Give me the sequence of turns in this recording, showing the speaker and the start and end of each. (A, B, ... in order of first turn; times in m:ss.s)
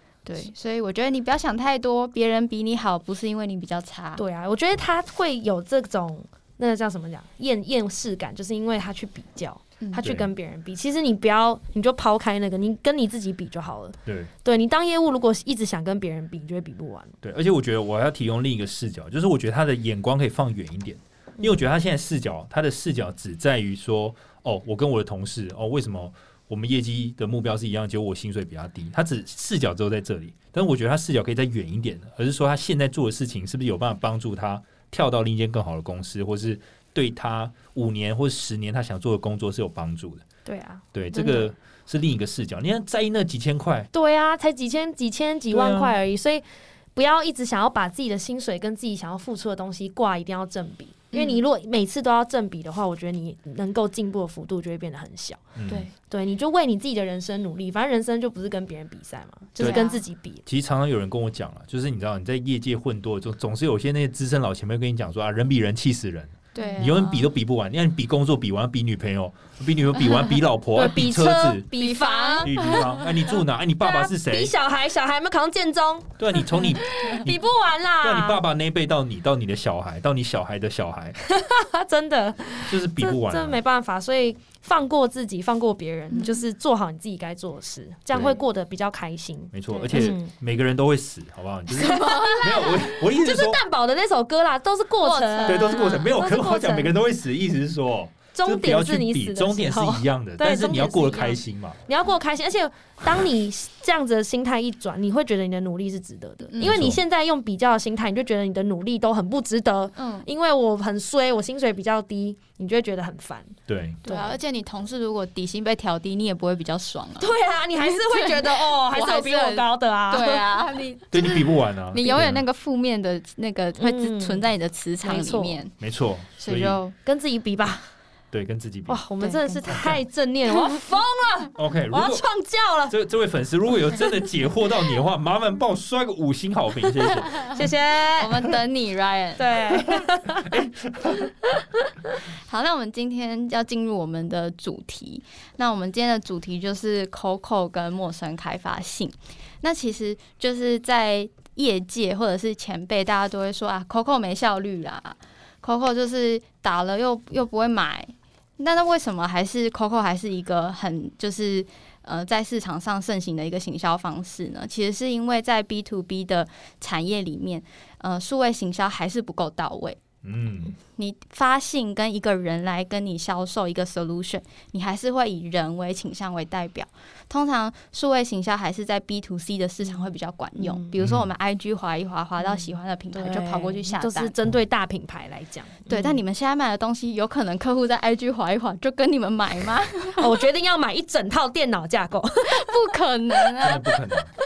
0:00.2-0:04.2 A
0:04.2-0:17.1 B
0:10.0-0:10.3 C
0:14.0-0:14.3 C
0:17.2-0:40.2 C
0:40.4-0:41.5 B
0:40.9-0:43.9 C
0:43.9-0:46.4 B
0:45.5-0:45.9 C
0:46.9-0:55.4 B
0:51.1-0:51.4 A
0:55.6-0:55.9 C
0:56.0-1:00.4 B
0:59.6-0:59.8 C
0:59.6-1:00.0 A
1:00.4-1:11.7 C
1:06.5-1:07.3 A
1:06.6-1:06.8 B
1:10.7-1:12.9 B
1:11.8-1:13.1 A
1:12.4-1:14.5 C
1:13.8-1:18.4 B
1:16.2-1:17.4 C
1:18.0-1:21.2 C
1:21.2-1:30.3 B
1:22.7-1:23.6 C
1:26.1-1:26.4 A
1:28.1-1:28.4 C
1:29.5-1:33.6 C
1:31.8-1:32.8 A
1:31.8-1:36.9 B
1:35.0-1:36.1 A
1:35.4-1:41.8 C
1:38.3-1:53.5 B
1:46.6-1:47.0 C
1:50.0-1:50.3 A
1:53.7-1:54.0 C
1:54.0-1:54.4 B
1:54.0-2:05.7 A
1:57.2-2:00.4 B
2:01.1-2:02.4 C
2:03.8-2:04.4 B
2:05.0-2:05.6 B
2:05.8-2:06.8 C
2:06.4-2:06.9 A
2:07.0-2:07.9 B
2:08.3-2:09.0 C
2:08.9-2:12.9 B
2:09.2-2:09.8 A
2:09.7-2:10.0 C
2:11.5-2:12.2 C
2:12.9-2:17.6 C
2:17.4-2:18.5 B
2:18.2-2:19.6 A
2:19.4-2:20.5 B
2:19.9-2:21.3 C
2:22.4-2:50.0 A
2:50.2-2:50.8 C
2:50.9-3:04.3 A
3:00.6-3:00.9 B
3:01.0-3:01.3 C
3:02.4-3:06.2 B
3:05.9-3:10.4 A
3:10.2-3:12.7 B
3:12.4-3:14.0 A
3:13.6-3:14.3 C